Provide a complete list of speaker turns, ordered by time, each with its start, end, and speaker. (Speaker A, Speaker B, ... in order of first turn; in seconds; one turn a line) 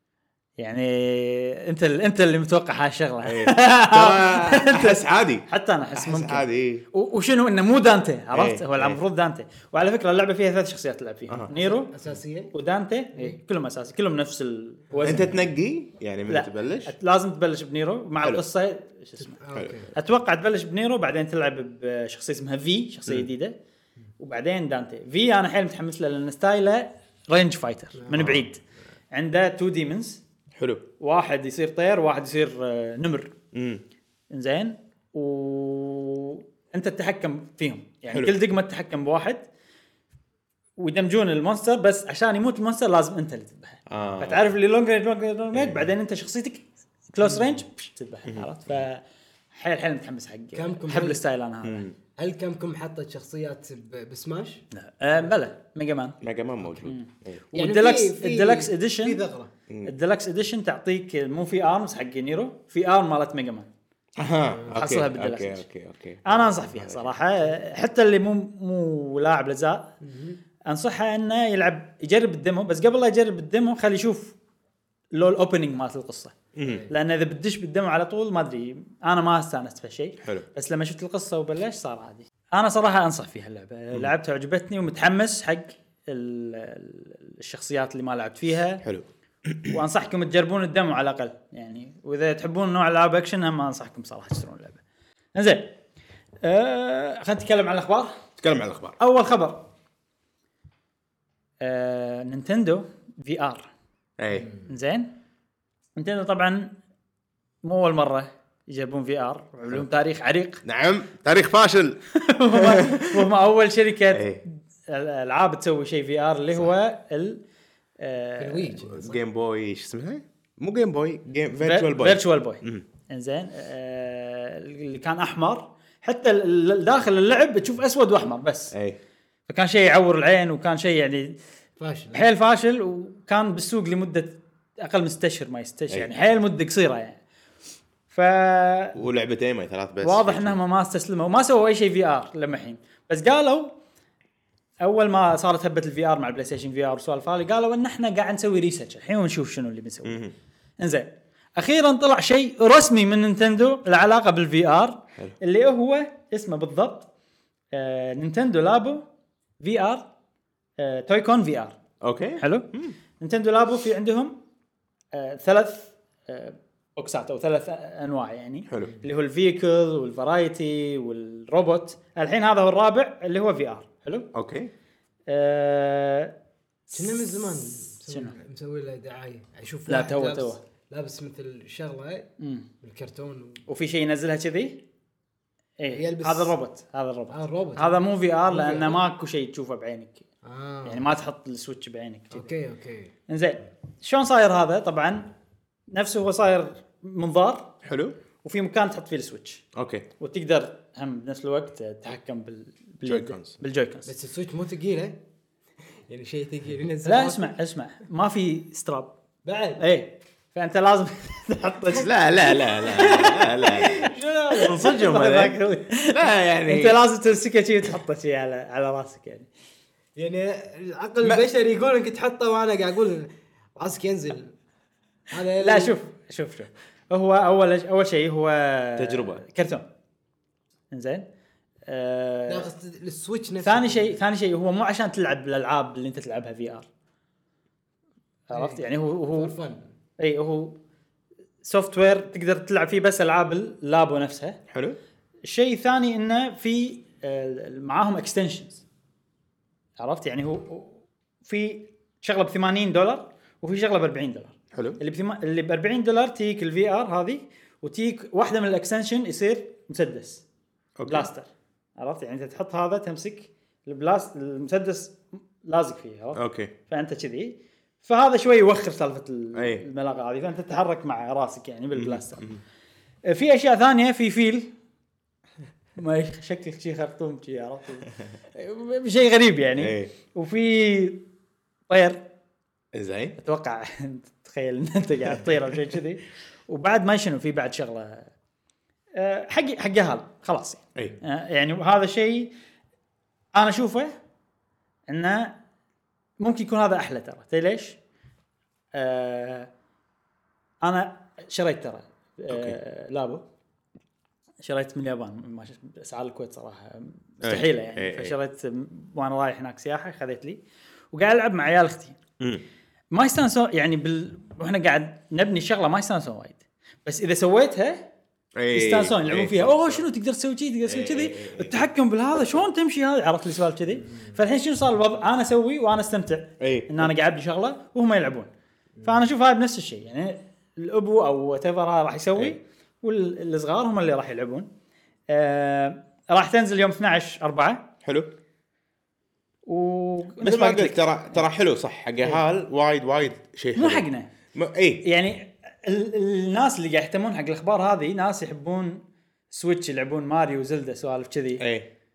Speaker A: 0.6-11.9
Speaker B: 3.2-6.9
Speaker B: 8.3-9.0
Speaker C: 11.6-12.5
Speaker A: 12.5-15.5
Speaker C: 14.9-15.4
Speaker B: 15.0-16.9
Speaker A: 16.3-19.4
Speaker C: 19.2-19.9
Speaker B: 19.5-19.8
Speaker A: 19.9-23.6
Speaker A: 24.2-28.6
Speaker B: 28.1-28.5
Speaker A: 29.1-30.2
Speaker B: 30.6-30.9
Speaker A: 31.0-33.4
Speaker B: 33.5-33.8
Speaker A: 34.3-39.5
Speaker B: 38.1-38.4
Speaker A: 40.8-51.9
Speaker B: 43.9-44.5
Speaker B: 45.5-45.9
Speaker C: 50.5-51.2
Speaker B: 51.6-52.0
Speaker C: 52.2-54.6
Speaker A: 54.7-56.2
Speaker B: 56.2-57.4
Speaker A: 56.8-59.2
Speaker C: 57.5-59.5
Speaker B: 59.7-59.9
Speaker A: 59.9-63.7
Speaker B: 64.2-67.2
Speaker A: 64.7-65.6
Speaker A: 66.2-69.9
Speaker C: 70.0-70.4
Speaker A: 70.7-74.4
Speaker A: 75.1-76.4
Speaker B: 76.5-76.9
Speaker C: 76.6-76.9
Speaker A: 76.9-88.8
Speaker B: 88.8-89.8
Speaker A: 89.7-94.8
Speaker A: 95.3-95.8
Speaker A: 96.4-98.2
Speaker B: 98.4-99.0
Speaker A: 99.0-99.7
Speaker A: 101.6-103.7
Speaker B: 104.2-104.5
Speaker A: 104.7-105.1
Speaker A: 106.0-106.7
Speaker A: 107.6-110.6
Speaker B: 110.7-112.0
Speaker A: 112.2-117.4
Speaker B: 112.5-113.3
Speaker B: 114.1-114.4
Speaker A: 118.0-118.8
Speaker C: 118.4-119.2
Speaker B: 118.8-122.8
Speaker A: 121.6-128.7
Speaker B: 128.7-129.0
Speaker A: 129.5-131.4
Speaker C: 131.8-132.2
Speaker A: 132.1-137.2
Speaker A: 138.1-139.0
Speaker B: 138.9-140.6
Speaker A: 140.0-143.8
Speaker A: 144.8-150.2
Speaker B: 150.1-150.3
Speaker A: 150.8-157.1
Speaker A: 157.7-159.1
Speaker A: 159.6-160.1
Speaker A: 160.8-161.8
Speaker B: 162.0-163.0
Speaker A: 162.4-162.7
Speaker A: 163.2-164.4
Speaker A: 165.1-174.3
Speaker B: 168.7-168.9
Speaker B: 174.3-174.7
Speaker A: 175.3-176.3
Speaker A: 176.9-178.3
Speaker C: 176.9-182.3
Speaker A: 179.9-180.6
Speaker A: 182.4-182.7
Speaker C: 182.8-183.7
Speaker A: 183.7-184.8
Speaker A: 185.8-190.2
Speaker C: 185.9-186.6
Speaker C: 187.3-189.0
Speaker C: 190.4-191.1
Speaker A: 190.8-192.5
Speaker C: 192.3-193.1
Speaker A: 193.3-195.3
Speaker A: 195.9-197.8
Speaker B: 197.8-198.2
Speaker A: 198.4-199.6
Speaker B: 199.7-200.1
Speaker A: 200.2-204.1
Speaker B: 203.1-203.6
Speaker C: 204.1-205.2
Speaker C: 206.1-207.6
Speaker A: 207.1-209.2
Speaker C: 209.4-209.8
Speaker A: 209.8-213.9
Speaker B: 211.9-217.0
Speaker C: 213.0-214.9
Speaker A: 214.4-219.5
Speaker C: 220.2-224.6
Speaker C: 225.3-226.0
Speaker A: 225.6-229.9
Speaker B: 229.0-229.4
Speaker A: 230.9-231.2
Speaker A: 231.9-232.7
Speaker C: 232.5-234.2
Speaker A: 233.6-236.9
Speaker A: 238.5-239.6
Speaker C: 238.5-239.8
Speaker A: 240.2-240.8
Speaker A: 241.6-244.6
Speaker B: 244.7-245.0
Speaker A: 245.4-248.8
Speaker A: 250.0-260.4
Speaker B: 254.7-255.0
Speaker B: 261.0-261.3
Speaker A: 261.1-272.5
Speaker B: 266.4-266.7
Speaker B: 269.6-269.9
Speaker B: 271.9-272.6
Speaker A: 273.3-274.7
Speaker A: 276.0-281.3
Speaker B: 279.8-280.1
Speaker A: 281.9-282.2
Speaker B: 282.9-283.4
Speaker A: 283.4-288.3
Speaker A: 289.2-292.5
Speaker A: 293.5-294.2
Speaker A: 295.1-295.6
Speaker A: 296.4-298.0
Speaker A: 298.9-299.7
Speaker A: 300.8-303.4
Speaker B: 302.5-302.8
Speaker A: 304.6-310.6
Speaker B: 307.4-308.4
Speaker A: 311.1-312.2
Speaker A: 313.1-318.1
Speaker B: 318.6-320.1
Speaker A: 318.7-328.5
Speaker B: 320.9-321.9
Speaker B: 326.6-327.1
Speaker A: 329.0-334.7
Speaker A: 335.3-337.8
Speaker B: 338.0-338.3
Speaker A: 339.7-341.4
Speaker B: 340.4-345.1
Speaker A: 343.8-344.3
Speaker A: 345.0-351.6
Speaker B: 351.6-351.9